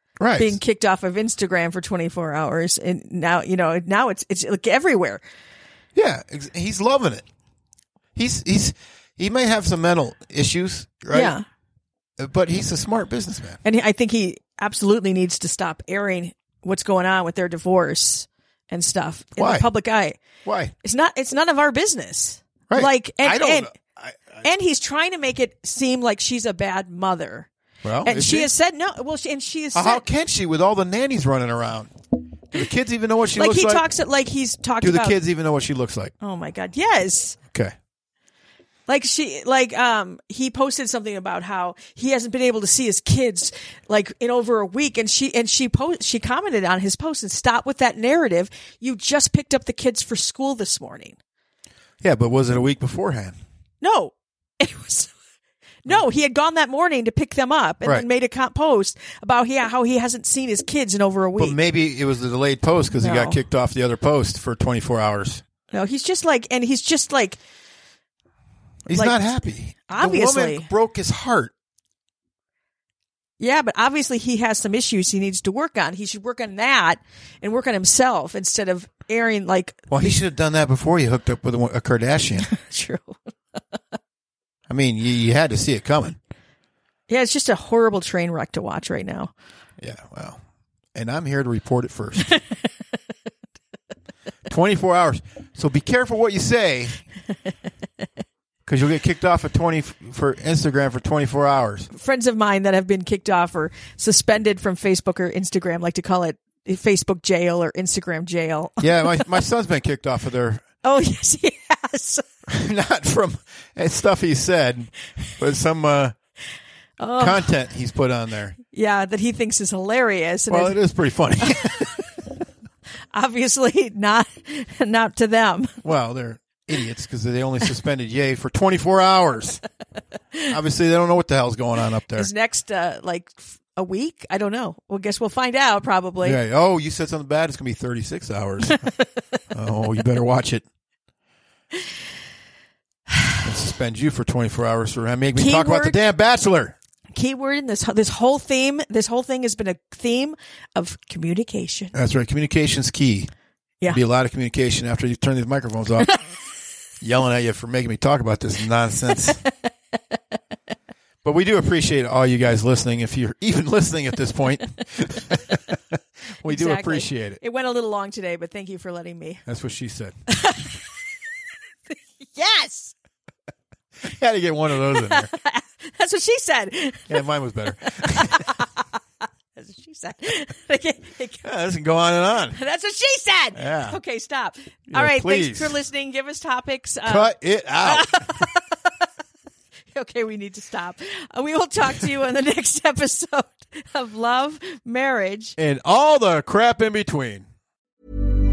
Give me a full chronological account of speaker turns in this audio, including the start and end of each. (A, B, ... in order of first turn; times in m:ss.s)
0:00.2-0:00.6 A
0:00.4-0:05.2 B
0:06.0-0:07.2 A
0:08.2-0:11.4 A
0:11.1-0:11.4 B
0:12.2-0:13.6 A
0:13.6-0:20.2 B
0:19.4-0:19.7 A
0:20.4-0:20.7 A
0:20.8-0:23.7 B
0:22.7-0:24.4 A
0:24.4-0:27.5 B
0:27.8-0:28.5 A
0:28.0-0:30.0 B
0:29.7-0:31.9 A
0:32.5-0:33.8 A
0:33.4-0:35.2 B
0:34.8-0:36.1 A
0:36.2-0:37.4 B
0:38.9-0:51.2 B
0:52.0-0:53.4 A
0:53.8-0:55.2 B
0:55.8-1:01.6 B
1:01.4-1:05.4 A
1:03.0-1:03.4 B
1:05.7-1:07.4 B
1:08.9-1:11.5 A
1:09.9-1:10.7 B
1:13.4-1:19.9 B
1:19.9-1:22.5 A
1:22.6-1:23.2 B
1:24.7-1:26.2 A
1:27.1-1:29.3 B
1:29.8-1:30.4 A
1:31.0-1:32.3 A
1:34.5-1:37.0 A
1:38.7-1:41.9 A
1:41.9-1:49.2 B
1:48.8-1:50.6 A
1:50.8-1:52.2 B
1:52.5-1:56.2 A
1:57.0-1:57.5 B
1:57.2-1:58.6 A
1:58.7-2:00.8 B
2:00.5-2:01.9 A
2:01.5-2:01.7 B
2:03.1-2:05.8 B
2:05.8-2:09.6 A
2:10.5-2:12.3 A
2:12.2-2:16.4 B
2:16.2-2:18.9 A
2:19.5-2:20.6 A
2:23.4-2:26.8 A
2:25.4-2:26.0 B
2:27.2-2:31.9 B
2:31.9-2:33.3 A
2:33.9-2:36.1 A
2:37.0-2:39.4 A
2:41.2-2:47.4 A
2:46.5-2:49.4 B
2:49.5-2:50.2 A
2:50.3-2:50.8 B
2:52.2-2:52.9 B
2:54.0-2:55.3 A
2:55.0-2:57.2 B
2:57.1-2:58.5 A
2:58.1-2:58.8 B
2:59.6-3:01.5 B
3:01.4-3:02.6 A
3:02.5-3:08.6 B
3:03.6-3:04.0 A
3:04.9-3:05.8 A
3:07.1-3:08.2 A
3:09.9-3:15.6 B
3:15.6-3:17.5 A